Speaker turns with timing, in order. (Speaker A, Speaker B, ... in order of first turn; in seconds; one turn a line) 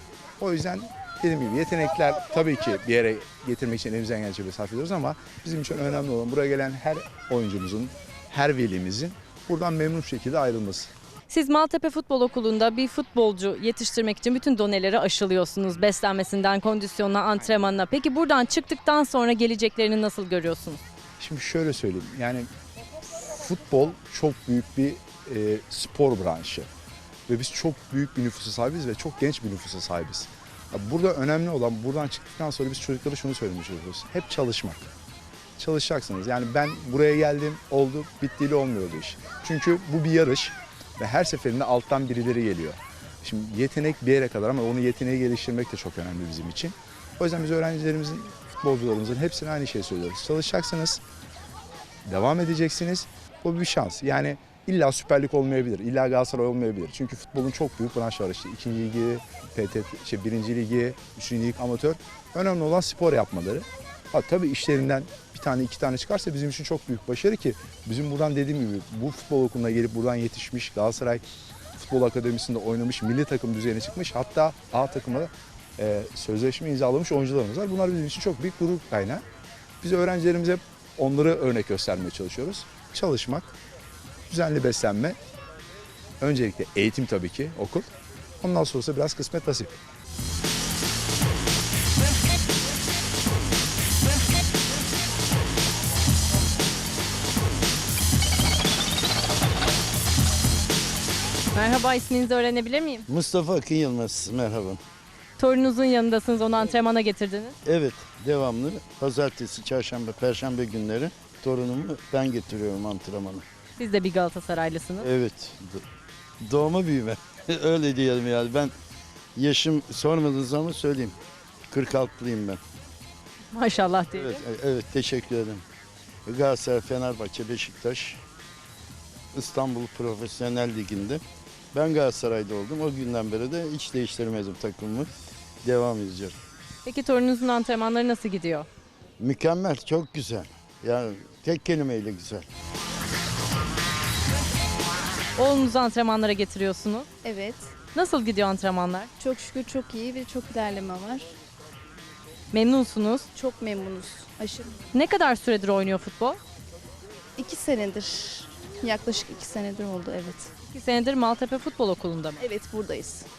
Speaker A: 0.4-10.9
Speaker B: 11.3-20.8
Speaker A: 21.2-22.5
Speaker A: 23.0-26.7
Speaker A: 27.3-34.9
Speaker A: 35.6-51.0
Speaker A: 52.0-71.2
Speaker A: 71.8-79.2
Speaker A: 79.8-83.6
Speaker A: 84.3-85.2
Speaker A: 86.2-87.9
Speaker A: 88.4-89.8
Speaker B: 101.5-103.1
Speaker C: 103.1-104.8
Speaker B: 105.4-107.6
Speaker C: 107.7-113.4
Speaker B: 113.8-115.1
Speaker C: 115.0-115.8
Speaker C: 116.4-118.7
Speaker C: 119.4-121.2
Speaker C: 121.7-122.6
Speaker B: 123.5-124.4
Speaker C: 124.2-125.6
Speaker C: 126.3-128.2
Speaker C: 129.3-131.2
Speaker C: 131.7-135.1
Speaker C: 135.6-136.4
Speaker B: 136.8-138.7
Speaker C: 139.2-142.5
Speaker B: 145.4-147.1
Speaker D: 147.2-147.7
Speaker B: 147.9-149.1
Speaker D: 149.2-151.3
Speaker B: 152.5-153.3
Speaker D: 153.3-154.8
Speaker B: 154.9-156.4
Speaker D: 157.4-160.5
Speaker B: 160.7-162.4
Speaker D: 162.4-163.3